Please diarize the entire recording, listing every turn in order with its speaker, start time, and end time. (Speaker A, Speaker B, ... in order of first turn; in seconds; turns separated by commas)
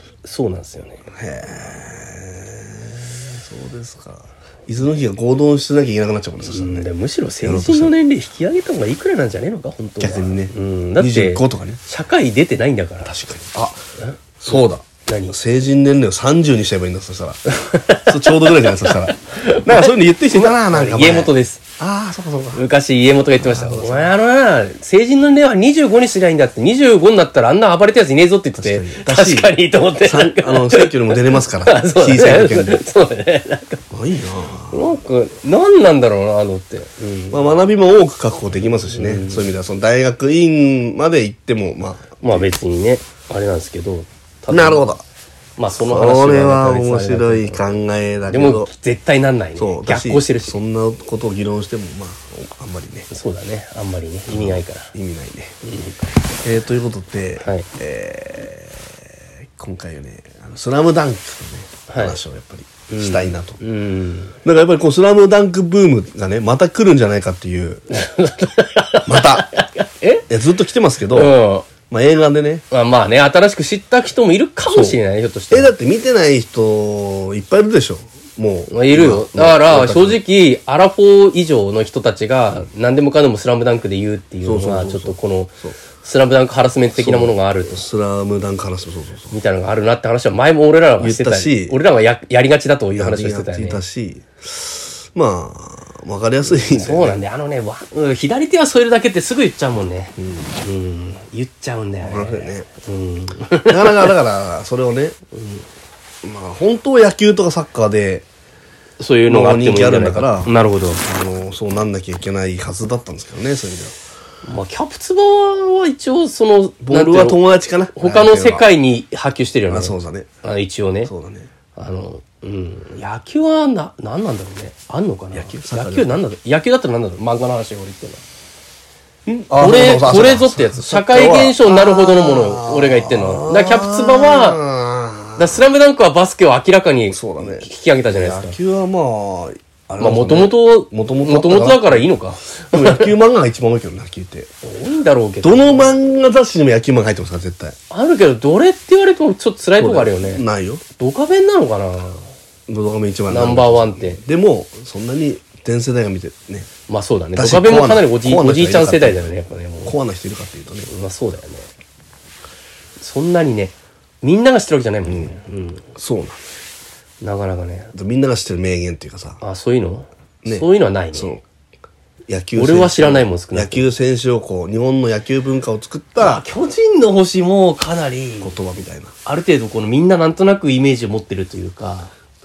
Speaker A: 0.2-1.0, Speaker B: 1.1-6.9, Speaker A: 6.4-13.1, Speaker B: 7.4-7.9, Speaker B: 10.0-11.8, Speaker B: 13.0-13.8, Speaker A: 14.0-15.3, Speaker B: 14.4-22.6, Speaker A: 17.6-21.6, Speaker A: 22.5-33.8, Speaker B: 23.4-24.1, Speaker B: 28.6-32.8, Speaker B: 33.9-34.9, Speaker A: 34.7-37.5, Speaker B: 37.3-42.5, Speaker A: 38.9-39.5, Speaker A: 42.2-44.9, Speaker B: 44.5-45.0, Speaker A: 45.6-47.6, Speaker B: 45.7-48.7, Speaker A: 48.3-50.5, Speaker B: 49.6-53.1, Speaker A: 53.1-54.9, Speaker B: 54.3-55.5, Speaker A: 55.6-56.1, Speaker B: 56.4-63.6, Speaker A: 57.4-57.7, Speaker A: 61.9-62.2, Speaker A: 62.9-64.3, Speaker B: 64.4-67.8, Speaker A: 67.9-70.3, Speaker B: 69.0-69.5, Speaker B: 70.3-71.3, Speaker A: 71.1-71.7, Speaker B: 71.9-72.6, Speaker A: 72.7-75.7, Speaker B: 74.7-75.0, Speaker B: 75.5-80.2, Speaker A: 78.7-87.8, Speaker B: 84.4-85.8, Speaker B: 86.9-89.3, Speaker A: 89.3-93.8, Speaker B: 91.0-91.8, Speaker B: 93.0-97.2, Speaker A: 96.5-104.1, Speaker B: 100.2-100.5, Speaker B: 102.0-102.7, Speaker B: 103.7-105.2, Speaker A: 105.3-105.6, Speaker B: 106.2-108.2, Speaker A: 109.0-111.0, Speaker B: 109.2-114.0, Speaker A: 114.4-117.4, Speaker B: 116.8-118.7, Speaker A: 118.0-121.1, Speaker B: 119.7-120.3, Speaker B: 121.1-121.5, Speaker A: 121.7-128.2, Speaker B: 125.3-126.2, Speaker B: 129.2-135.6, Speaker A: 129.5-134.6, Speaker A: 135.4-138.6, Speaker B: 137.1-142.0, Speaker A: 140.0-143.1, Speaker B: 142.7-144.5, Speaker A: 144.6-145.9, Speaker B: 145.4-147.8, Speaker A: 147.9-150.4, Speaker B: 149.8-150.8, Speaker A: 151.0-152.3, Speaker B: 152.7-156.7, Speaker A: 153.3-154.2, Speaker A: 156.9-159.9, Speaker B: 157.3-159.3, Speaker B: 159.8-160.9, Speaker A: 160.9-161.7, Speaker A: 163.0-165.8, Speaker B: 165.0-165.3, Speaker B: 165.9-166.4, Speaker A: 167.2-167.9, Speaker B: 167.9-169.4, Speaker A: 169.4-171.3, Speaker B: 170.4-171.4, Speaker B: 172.3-176.4, Speaker A: 172.6-173.9, Speaker A: 176.2-178.6, Speaker B: 178.4-179.1, Speaker A: 179.2-182.1